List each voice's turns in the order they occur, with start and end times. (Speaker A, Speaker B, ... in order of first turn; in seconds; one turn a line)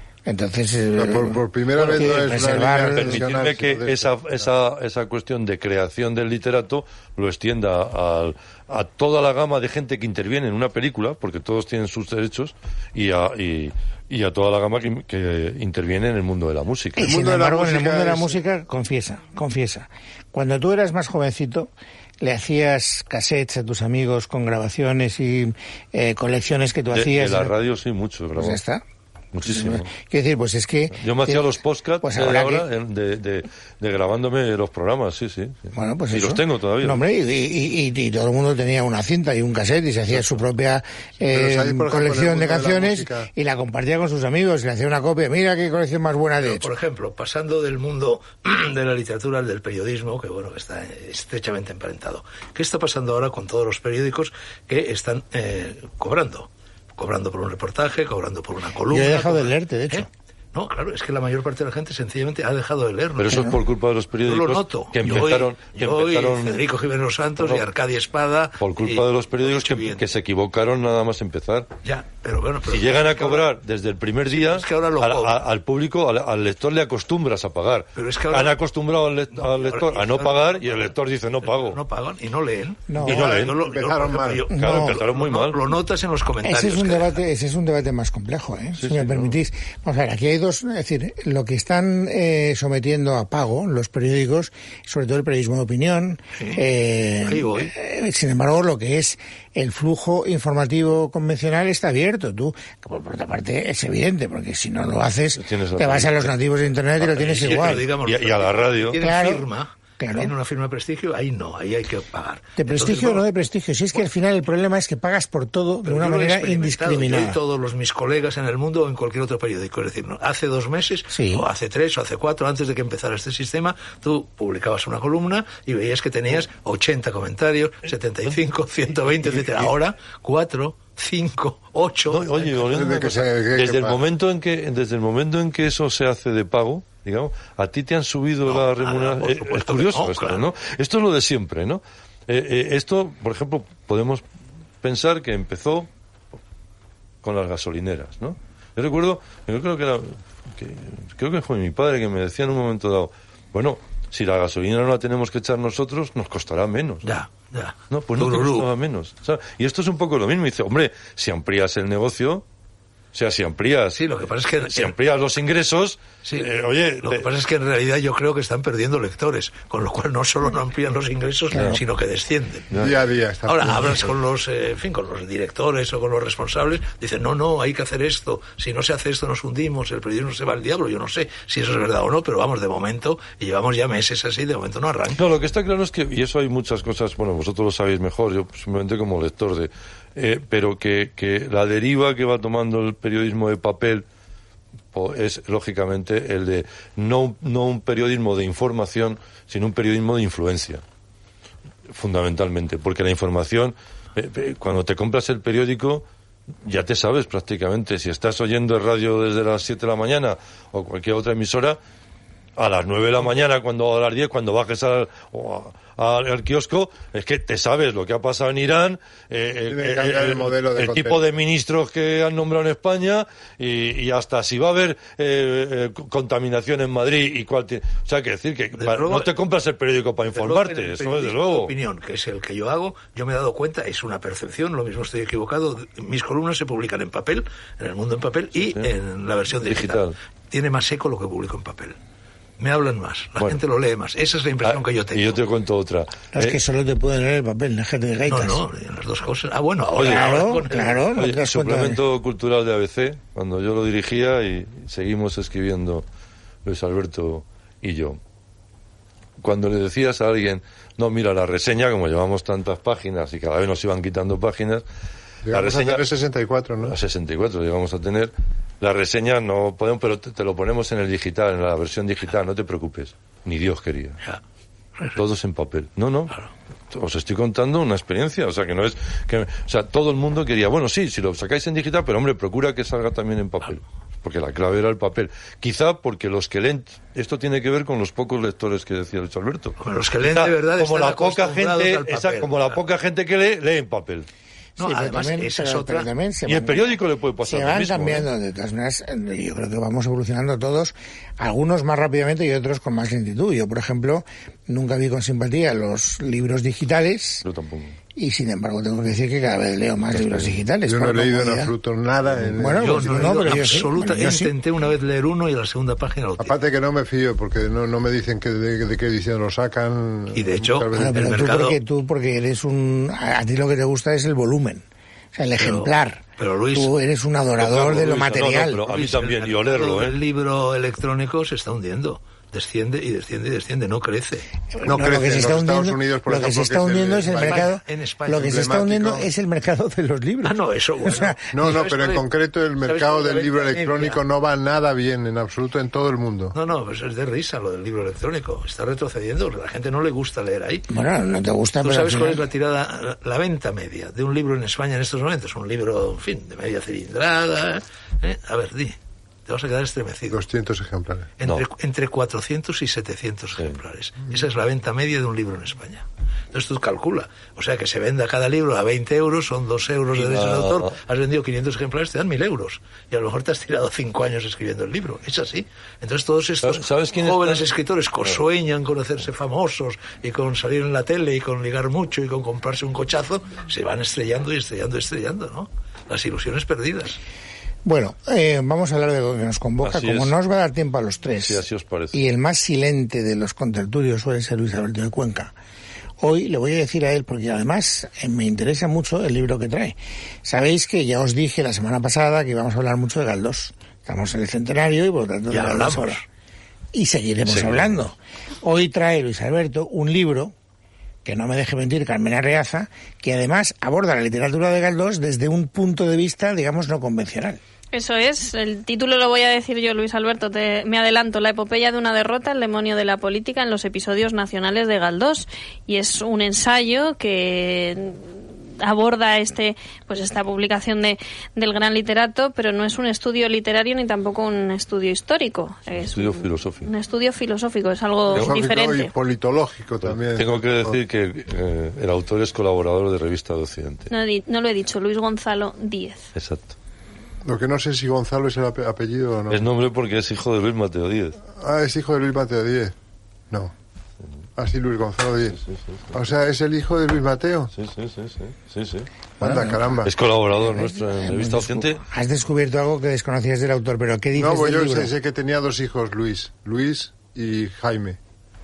Speaker A: 0.3-3.2
Speaker B: 1.0-4.1
Speaker C: 2.9-17.1
Speaker A: 17.0-27.5
Speaker B: 17.0-18.4
Speaker C: 26.9-28.6
Speaker A: 28.4-28.8
Speaker C: 29.3-29.9
Speaker A: 29.4-32.7
Speaker C: 30.9-37.0
Speaker A: 35.7-46.7
Speaker B: 41.3-43.3
Speaker D: 46.4-63.5
Speaker A: 58.9-60.1
Speaker C: 63.2-66.6
Speaker A: 63.3-63.6
Speaker D: 64.2-70.0
Speaker C: 68.6-71.7
Speaker D: 71.8-73.5
Speaker C: 72.7-81.8
Speaker D: 74.3-75.4
Speaker D: 78.0-78.6
Speaker D: 79.3-87.2
Speaker A: 82.9-83.3
Speaker C: 83.0-83.6
Speaker B: 83.4-84.5
Speaker C: 84.5-85.6
Speaker A: 84.5-85.0
Speaker A: 86.4-107.9
Speaker C: 88.8-89.3
Speaker D: 97.2-97.7
Speaker C: 105.4-106.4
Speaker D: 107.0-113.2
Speaker C: 107.4-109.0
Speaker A: 109.0-109.5
Speaker A: 110.0-110.3
Speaker A: 112.6-117.4
Speaker D: 115.8-132.5
Speaker A: 121.1-121.5
Speaker C: 129.2-129.7
Speaker C: 132.1-144.2
Speaker B: 132.7-134.0
Speaker D: 138.4-140.4
Speaker C: 144.8-145.9
Speaker C: 147.2-157.1
Speaker D: 157.0-158.7
Speaker C: 157.9-162.4
Speaker C: 163.1-164.0
Speaker D: 163.9-164.9
Speaker C: 164.6-167.3
Speaker D: 166.2-166.5
Speaker D: 167.0-172.8
Speaker A: 171.5-171.8
Speaker B: 172.8-174.1
Speaker D: 173.5-185.2
Speaker C: 185.2-194.1
Speaker C: 194.9-200.8
Speaker C: 201.9-206.1
Speaker C: 206.6-211.8
Speaker C: 212.6-231.7
Speaker B: 219.7-221.2
Speaker D: 228.8-229.3
Speaker D: 230.3-242.0
Speaker C: 239.6-240.2
Speaker D: 242.6-245.4
Speaker C: 244.7-246.6
Speaker A: 246.3-248.6
Speaker D: 248.3-251.1
Speaker C: 250.0-250.4
Speaker A: 250.0-252.0
Speaker C: 251.2-256.1
Speaker C: 256.6-258.2
Speaker C: 259.4-264.8
Speaker B: 265.5-267.0
Speaker C: 265.5-266.0
Speaker C: 266.9-274.2
Speaker C: 275.1-276.4
Speaker C: 276.9-294.3
Speaker D: 289.8-292.8
Speaker D: 294.8-296.1
Speaker A: 294.8-307.4
Speaker C: 296.5-298.3
Speaker C: 307.4-308.0
Speaker A: 308.1-311.7
Speaker C: 310.1-310.6
Speaker B: 310.9-313.9
Speaker A: 312.5-314.5
Speaker D: 312.8-316.6
Speaker B: 316.4-321.5
Speaker D: 320.3-321.8
Speaker A: 320.9-328.8
Speaker D: 325.6-326.9
Speaker C: 327.6-330.2
Speaker D: 328.8-334.5
Speaker A: 334.7-341.5
Speaker B: 334.8-337.7
Speaker D: 337.3-338.8
Speaker B: 338.3-339.3
Speaker D: 340.4-342.2
Speaker B: 341.5-346.6
Speaker D: 342.8-344.2
Speaker D: 346.5-350.9
Speaker A: 350.9-352.4
Speaker D: 351.8-360.4
Speaker B: 360.3-361.3
Speaker D: 361.4-387.2
Speaker C: 370.2-371.0
Speaker C: 376.6-377.6
Speaker A: 387.8-395.5
Speaker C: 389.8-390.4
Speaker C: 391.4-392.2
Speaker A: 396.2-406.2
Speaker D: 405.5-406.2
Speaker A: 406.9-410.5
Speaker C: 407.4-408.0
Speaker A: 411.2-417.6
Speaker E: 417.9-428.3
Speaker E: 428.8-439.1
Speaker C: 436.0-436.9
Speaker B: 438.3-441.0
Speaker C: 440.0-444.1
Speaker E: 444.1-446.3
Speaker C: 446.4-446.8
Speaker B: 447.4-449.7
Speaker C: 449.5-451.4
Speaker B: 451.5-452.9
Speaker B: 454.6-455.6
Speaker B: 456.1-457.7
Speaker C: 457.7-462.0
Speaker B: 459.4-460.1
Speaker A: 459.4-459.7
Speaker A: 460.6-465.1
Speaker B: 464.4-468.2